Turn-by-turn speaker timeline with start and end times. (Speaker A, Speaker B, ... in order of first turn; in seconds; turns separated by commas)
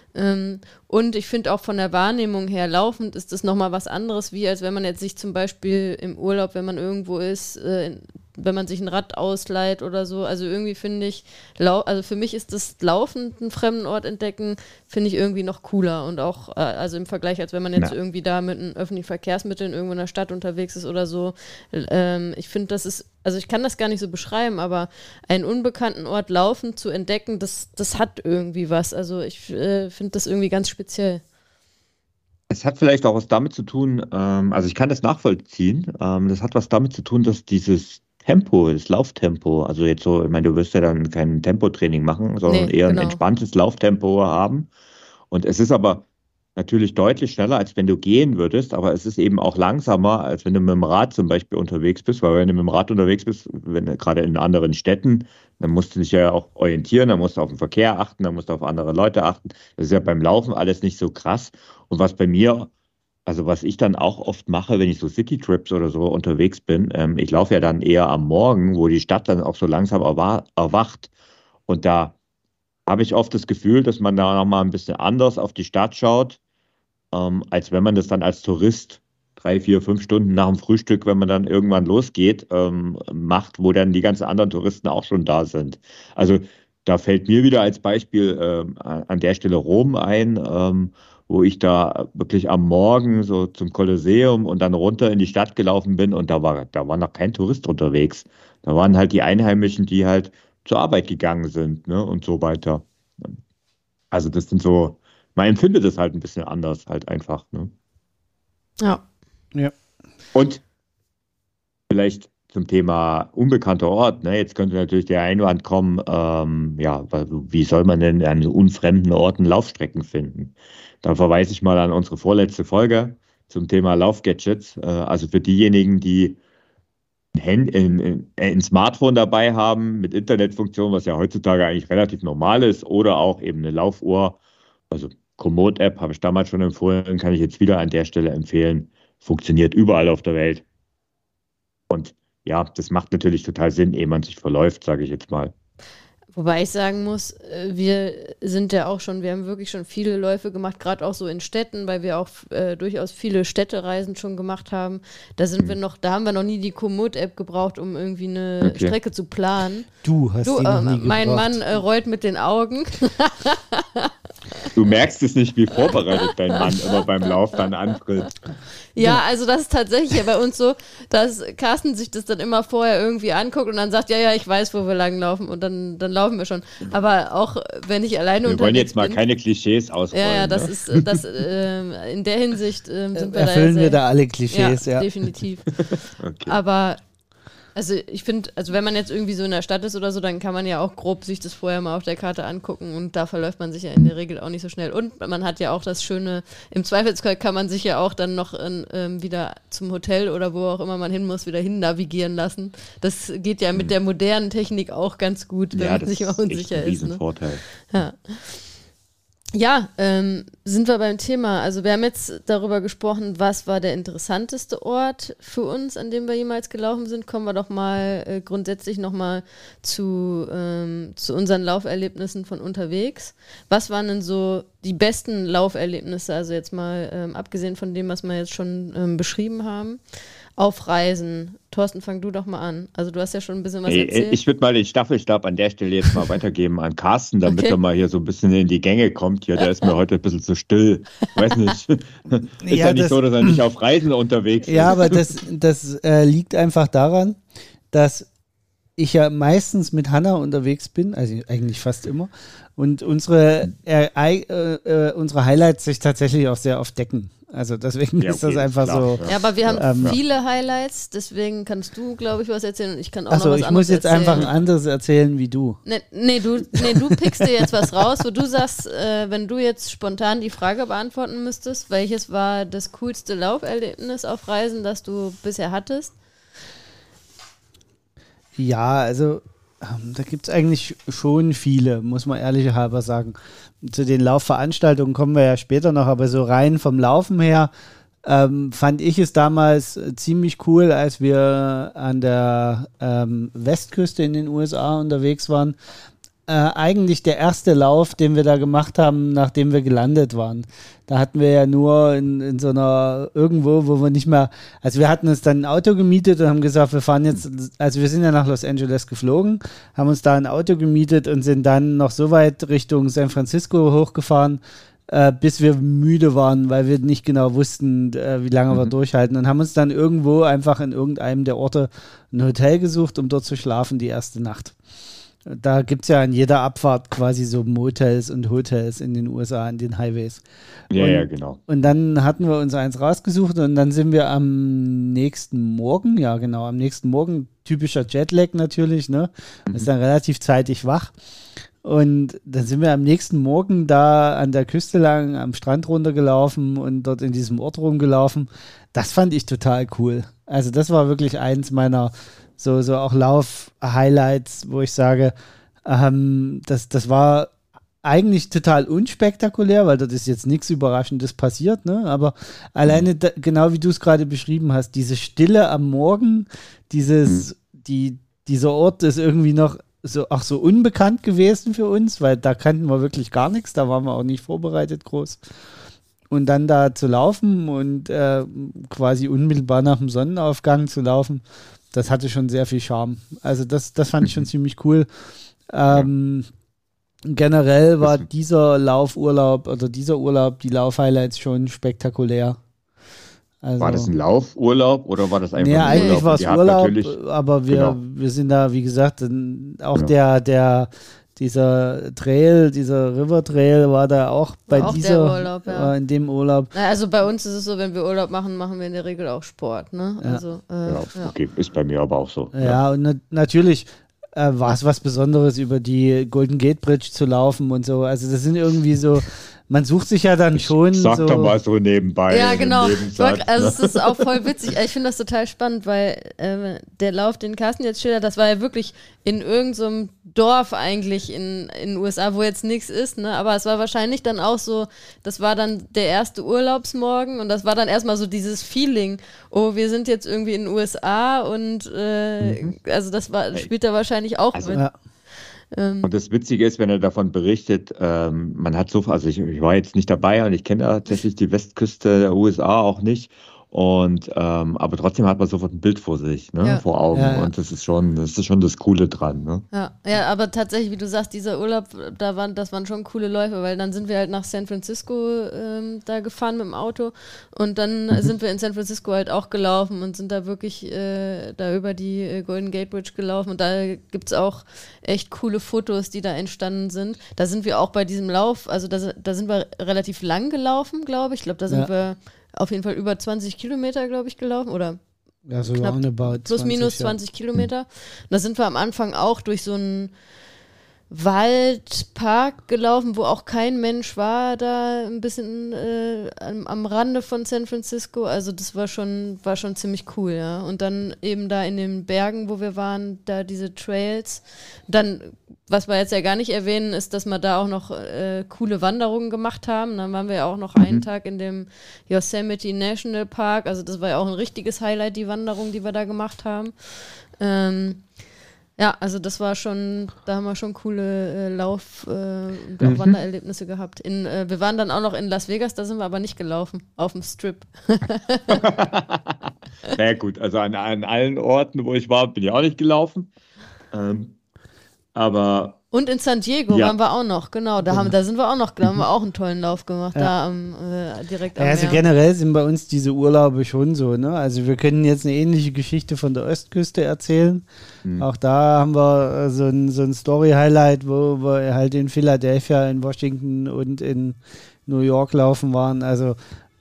Speaker A: 0.1-31.2, Speaker B: 32.5-44.7, Speaker A: 42.5-43.2, Speaker B: 45.3-46.0, Speaker B: 46.5-62.7, Speaker B: 63.2-71.1, Speaker B: 71.7-72.1, Speaker B: 72.9-76.4, Speaker B: 77.1-103.3, Speaker B: 104.1-107.7, Speaker B: 110.3-110.6, Speaker B: 111.9-126.4, Speaker B: 127.3-134.4, Speaker B: 134.9-140.6, Speaker B: 141.9-145.5, Speaker A: 146.3-159.9, Speaker B: 158.6-158.9, Speaker C: 160.0-161.6, Speaker A: 160.4-164.7, Speaker B: 164.7-168.4, Speaker A: 166.6-167.0, Speaker A: 168.9-179.2, Speaker B: 178.4-181.2, Speaker A: 180.1-185.8, Speaker C: 183.2-185.1, Speaker B: 185.7-186.6, Speaker A: 186.4-187.0, Speaker A: 187.7-207.2, Speaker B: 205.7-207.6, Speaker A: 207.9-208.6, Speaker A: 209.5-230.0, Speaker A: 230.6-234.4, Speaker B: 233.9-245.3, Speaker C: 242.6-243.6, Speaker C: 244.7-247.4, Speaker C: 247.9-248.3, Speaker C: 249.0-259.2, Speaker B: 258.2-260.2, Speaker A: 259.2-264.4, Speaker C: 259.7-260.2, Speaker C: 263.3-265.8, Speaker A: 265.9-276.1, Speaker C: 266.7-267.7, Speaker C: 278.6-287.7, Speaker C: 288.2-295.8, Speaker C: 296.5-324.8, Speaker C: 325.4-341.1, Speaker B: 330.9-331.6, Speaker C: 341.8-355.3, Speaker C: 355.8-375.4, Speaker C: 376.3-385.1, Speaker C: 385.7-386.5, Speaker C: 387.2-392.6, Speaker C: 393.6-394.1, Speaker B: 393.8-397.2, Speaker C: 395.6-406.7, Speaker A: 395.9-396.2, Speaker B: 397.7-398.0, Speaker A: 404.7-405.9, Speaker A: 406.7-411.3, Speaker B: 410.9-412.8, Speaker C: 412.5-421.5, Speaker B: 420.5-424.2, Speaker A: 422.3-444.8, Speaker B: 442.4-442.7, Speaker B: 444.5-444.8, Speaker A: 445.7-446.1, Speaker B: 446.0-459.6, Speaker C: 457.1-457.5, Speaker A: 459.7-485.0, Speaker C: 485.4-487.2, Speaker A: 485.6-490.1, Speaker A: 491.1-518.0, Speaker A: 518.8-528.6, Speaker B: 522.8-523.2, Speaker B: 528.5-533.3, Speaker B: 533.9-534.3, Speaker B: 535.1-535.8, Speaker A: 535.9-542.0, Speaker B: 536.7-537.0, Speaker C: 541.6-547.6, Speaker C: 548.2-556.4